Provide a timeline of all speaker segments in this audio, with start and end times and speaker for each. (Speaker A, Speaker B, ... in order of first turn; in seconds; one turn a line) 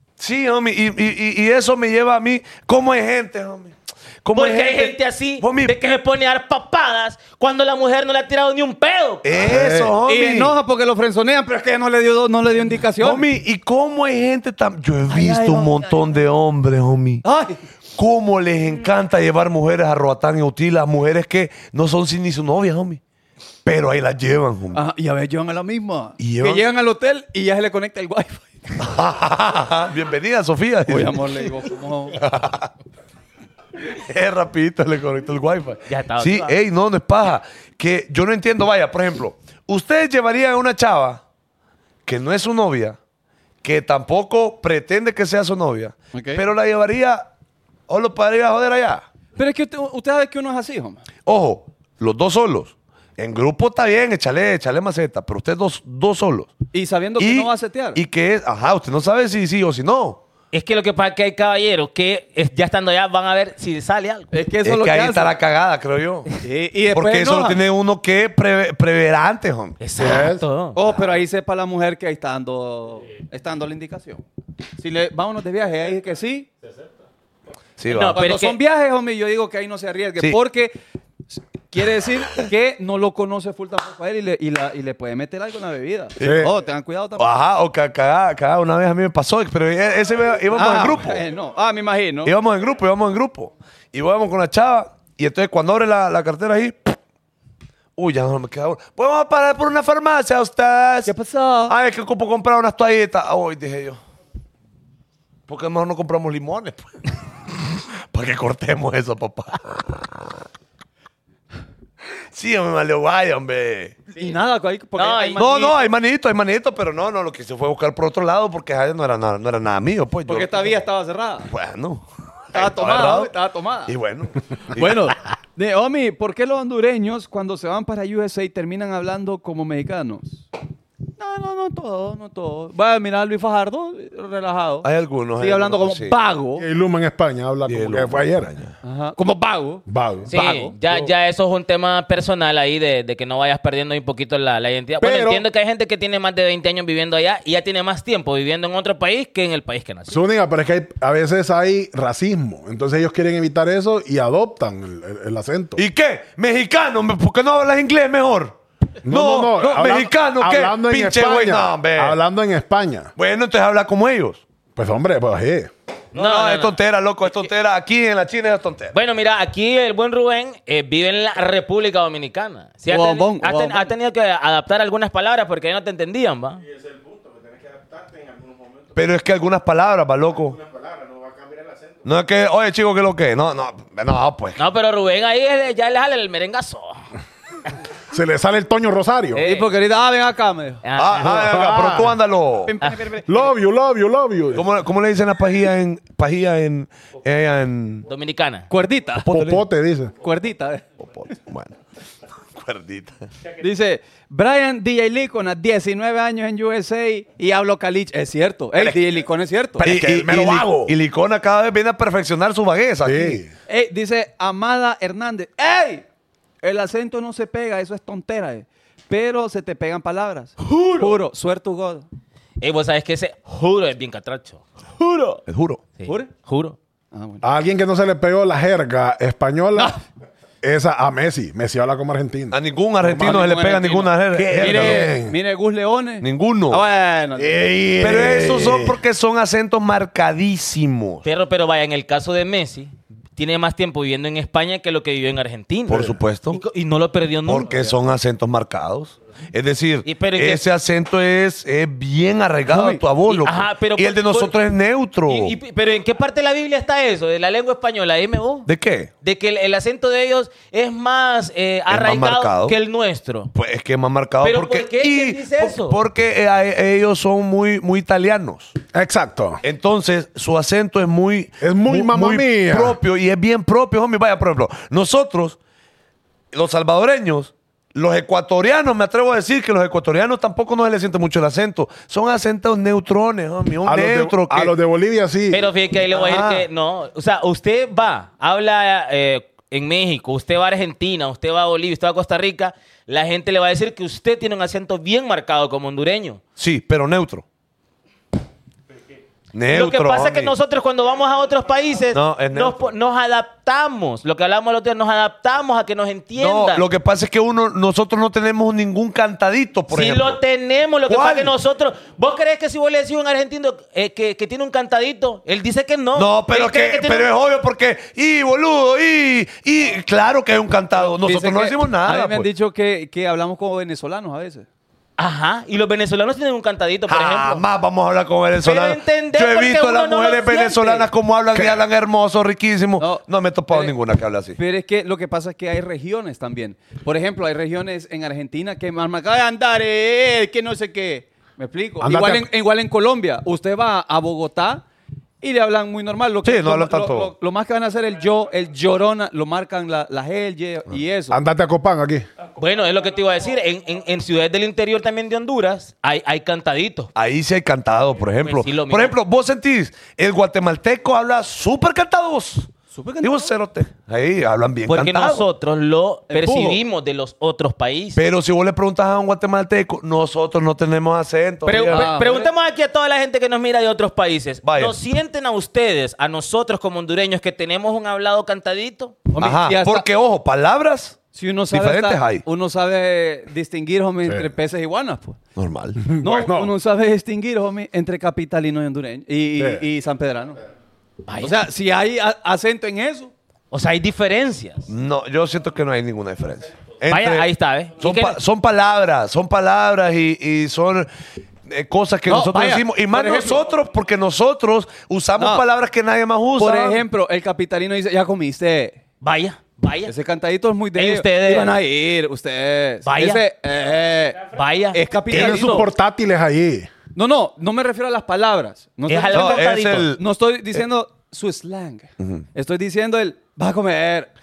Speaker A: 0.2-5.7
Speaker B: 4.3-9.5
Speaker A: 9.2-10.5
Speaker C: 9.3-9.9
Speaker D: 10.0-13.2
Speaker A: 13.0-17.2
Speaker D: 15.1-16.2
Speaker D: 17.2-17.6
Speaker A: 18.0-23.0
Speaker A: 23.6-24.8
Speaker D: 24.7-28.9
Speaker A: 26.2-26.6
Speaker A: 28.8-31.5
Speaker D: 30.9-32.2
Speaker A: 32.1-32.7
Speaker A: 33.9-41.2
Speaker B: 35.9-36.5
Speaker A: 42.0-43.0
Speaker A: 43.6-47.2
Speaker D: 46.1-46.4
Speaker A: 47.9-49.0
Speaker D: 49.4-51.0
Speaker A: 51.2-56.5
Speaker D: 56.7-58.0
Speaker A: 57.2-60.2
Speaker B: 60.5-64.3
Speaker D: 64.3-65.3
Speaker A: 64.6-66.3
Speaker D: 66.4-67.6
Speaker A: 66.9-69.8
Speaker B: 69.8-70.8
Speaker C: 70.0-70.4
Speaker D: 70.7-74.2
Speaker D: 74.8-76.5
Speaker A: 77.8-78.2
Speaker B: 77.9-78.6
Speaker D: 78.1-80.8
Speaker D: 81.3-87.3
Speaker A: 86.2-86.5
Speaker C: 86.2-86.5
Speaker A: 87.2-91.2
Speaker D: 90.5-92.3
Speaker A: 92.2-97.0
Speaker A: 98.0-101.1
Speaker D: 101.0-101.7
Speaker A: 101.7-104.0
Speaker A: 105.5-107.1
Speaker A: 108.1-110.3
Speaker A: 112.3-114.0
Speaker D: 114.1-115.8
Speaker B: 115.0-115.4
Speaker A: 115.4-120.8
Speaker D: 120.3-121.5
Speaker A: 121.5-123.3
Speaker D: 122.5-123.9
Speaker A: 123.8-125.1
Speaker D: 124.7-130.4
Speaker D: 131.2-136.7
Speaker A: 134.8-136.2
Speaker C: 136.6-138.5
Speaker A: 137.7-138.7
Speaker D: 138.8-140.7
Speaker C: 139.9-140.3
Speaker B: 140.3-150.2
Speaker C: 145.0-145.4
Speaker C: 150.1-155.8
Speaker A: 155.8-158.6
Speaker C: 159.0-163.1
Speaker A: 159.1-162.2
Speaker A: 163.2-164.4
Speaker C: 164.8-165.7
Speaker B: 166.1-166.8
Speaker A: 166.1-169.0
Speaker B: 168.9-176.6
Speaker D: 172.9-173.9
Speaker A: 178.9-180.6
Speaker A: 182.0-184.6
Speaker B: 184.6-187.0
Speaker C: 188.1-189.4
Speaker B: 189.3-189.7
Speaker D: 189.4-190.8
Speaker B: 190.8-191.4
Speaker A: 190.9-192.7
Speaker C: 191.2-192.2
Speaker D: 192.7-193.5
Speaker C: 193.3-194.7
Speaker A: 194.5-198.1
Speaker B: 198.1-198.7
Speaker D: 198.7-199.3
Speaker A: 199.2-199.6
Speaker C: 199.3-200.1
Speaker D: 200.2-200.9
Speaker A: 201.1-201.7
Speaker A: 202.5-203.2
Speaker D: 203.6-209.8
Speaker C: 209.8-210.9
Speaker A: 209.8-213.4
Speaker C: 213.0-213.5
Speaker D: 213.7-216.0
Speaker D: 216.6-222.1
Speaker B: 220.6-221.1
Speaker B: 222.6-225.4
Speaker A: 225.5-225.8
Speaker B: 226.0-226.8
Speaker D: 226.0-226.3
Speaker D: 227.1-227.4
Speaker C: 227.4-230.0
Speaker C: 230.6-232.6
Speaker A: 232.5-235.3
Speaker D: 233.0-237.6
Speaker C: 234.3-235.3
Speaker A: 236.2-236.8
Speaker C: 237.4-239.0
Speaker A: 238.0-241.2
Speaker B: 241.2-248.0
Speaker A: 245.9-246.6
Speaker A: 247.4-255.6
Speaker B: 250.1-250.6
Speaker D: 252.7-253.0
Speaker B: 253.3-254.5
Speaker B: 255.3-258.7
Speaker A: 258.6-259.1
Speaker B: 259.2-263.5
Speaker A: 261.9-262.8
Speaker A: 263.5-268.7
Speaker B: 264.4-266.0
Speaker C: 268.9-269.6
Speaker A: 269.6-275.6
Speaker C: 271.6-273.0
Speaker A: 276.5-284.7
Speaker C: 283.8-285.7
Speaker B: 285.5-296.4
Speaker A: 286.1-286.6
Speaker A: 296.6-297.4
Speaker A: 299.5-300.5
Speaker B: 299.7-306.8
Speaker A: 302.1-302.9
Speaker A: 306.4-310.4
Speaker B: 309.9-317.3
Speaker A: 311.1-311.5
Speaker A: 316.1-322.5
Speaker D: 321.0-324.7
Speaker B: 325.2-327.6
Speaker A: 327.1-334.6
Speaker B: 328.6-331.1
Speaker C: 331.5-331.8
Speaker D: 333.0-333.9
Speaker D: 334.6-344.8
Speaker C: 342.0-342.5
Speaker D: 345.4-351.4
Speaker A: 346.4-347.3
Speaker C: 351.3-352.2
Speaker B: 352.6-357.1
Speaker A: 357.1-362.7
Speaker B: 358.4-359.1
Speaker D: 362.9-363.5
Speaker A: 363.2-365.5
Speaker B: 364.9-368.2
Speaker D: 366.3-366.8
Speaker A: 368.1-372.2
Speaker B: 371.6-379.2
Speaker D: 371.8-372.5
Speaker A: 374.6-374.9
Speaker D: 379.3-380.0
Speaker A: 379.4-382.4
Speaker D: 381.3-385.4
Speaker A: 385.6-386.1
Speaker C: 386.0-386.7
Speaker D: 386.2-390.6
Speaker C: 389.6-389.8
Speaker B: 391.2-391.6
Speaker D: 391.4-393.3
Speaker B: 393.7-394.9
Speaker A: 394.9-401.1
Speaker B: 397.1-398.4
Speaker A: 401.7-407.0
Speaker D: 402.3-403.6
Speaker D: 405.4-405.6
Speaker D: 406.6-409.0
Speaker B: 409.2-410.1
Speaker D: 410.1-415.9
Speaker B: 410.9-411.7
Speaker B: 413.0-413.4
Speaker B: 414.5-415.9
Speaker C: 415.3-416.9
Speaker D: 417.1-424.3
Speaker B: 419.1-420.1
Speaker A: 419.3-420.2
Speaker A: 422.2-422.4